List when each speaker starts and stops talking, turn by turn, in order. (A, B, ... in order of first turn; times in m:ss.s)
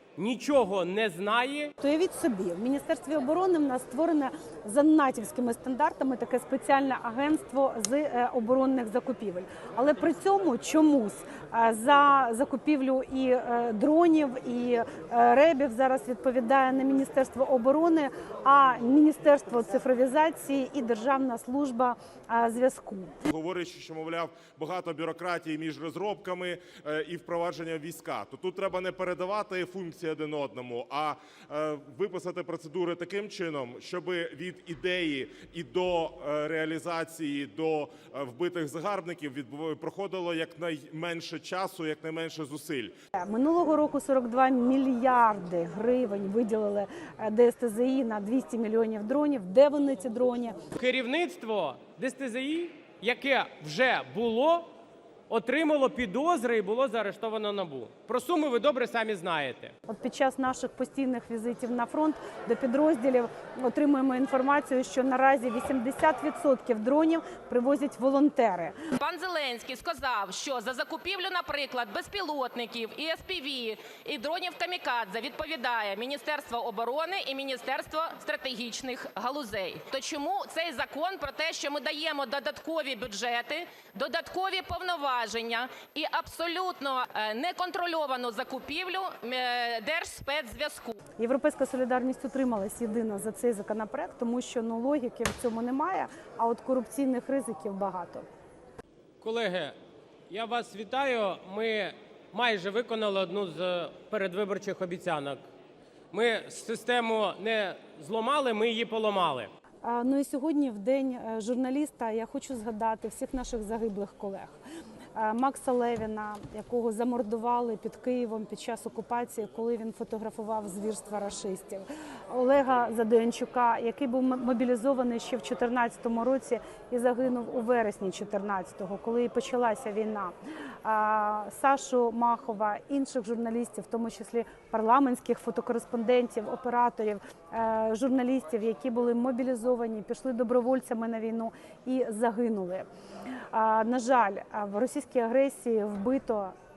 0:00.2-0:01.7 A
0:01.8-0:23.2 B
0:23.3-0:42.9 C
0:43.2-0:50.6 B
0:50.8-0:54.7 A
0:55.3-0:59.7 A
0:59.9-1:08.8 B
1:09.0-1:31.0 D
1:31.2-1:38.2 B
1:39.2-1:39.8 A
1:40.3-1:45.4 A
1:46.1-1:49.5 A
1:49.8-1:54.6 B
1:55.2-2:10.3 B
2:10.8-2:22.9 B
2:23.5-2:26.5 B